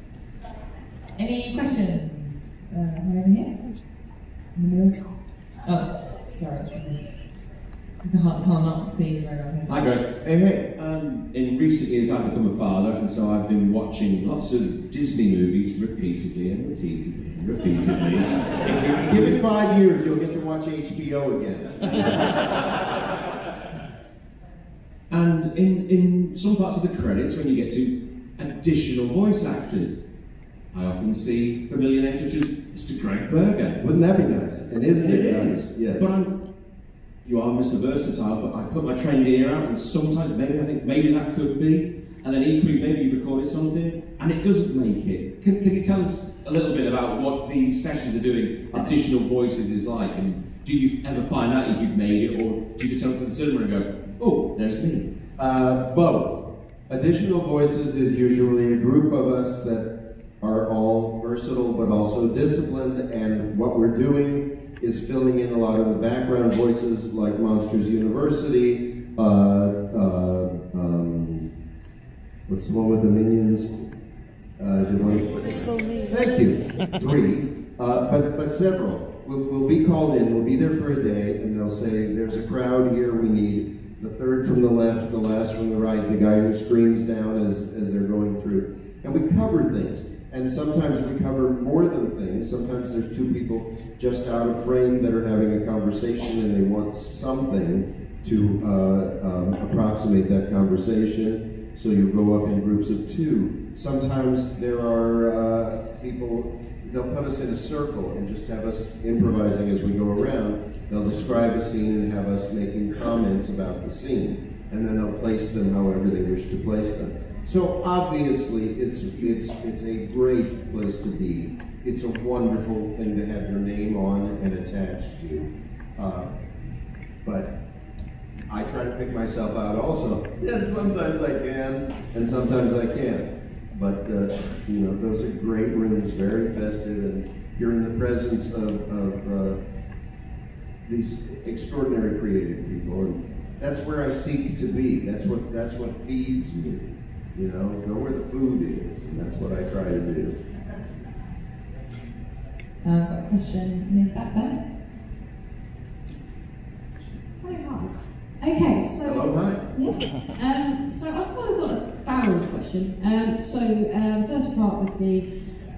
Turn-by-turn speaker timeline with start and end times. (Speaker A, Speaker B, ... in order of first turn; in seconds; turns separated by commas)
Speaker A: 1.2-3.6, Speaker A: 4.5-5.0, Speaker A: 5.6-7.0, Speaker A: 8.0-9.8, Speaker B: 9.7-19.4, Speaker C: 10.2-10.7, Speaker C: 19.1-22.5, Speaker B: 25.1-30.0, Speaker B: 30.7-33.8, Speaker C: 33.8-36.1, Speaker B: 34.7-36.3, Speaker B: 37.2-55.1, Speaker C: 55.4-59.9, Speaker C: 60.4-71.5, Speaker C: 72.5-73.7, Speaker C: 74.6-126.3, Speaker C: 127.2-127.5, Speaker C: 128.5-139.6, Speaker C: 140.9-150.4, Speaker A: 152.8-154.6, Speaker D: 158.4-159.2, Speaker C: 159.0-159.7, Speaker D: 160.3-165.3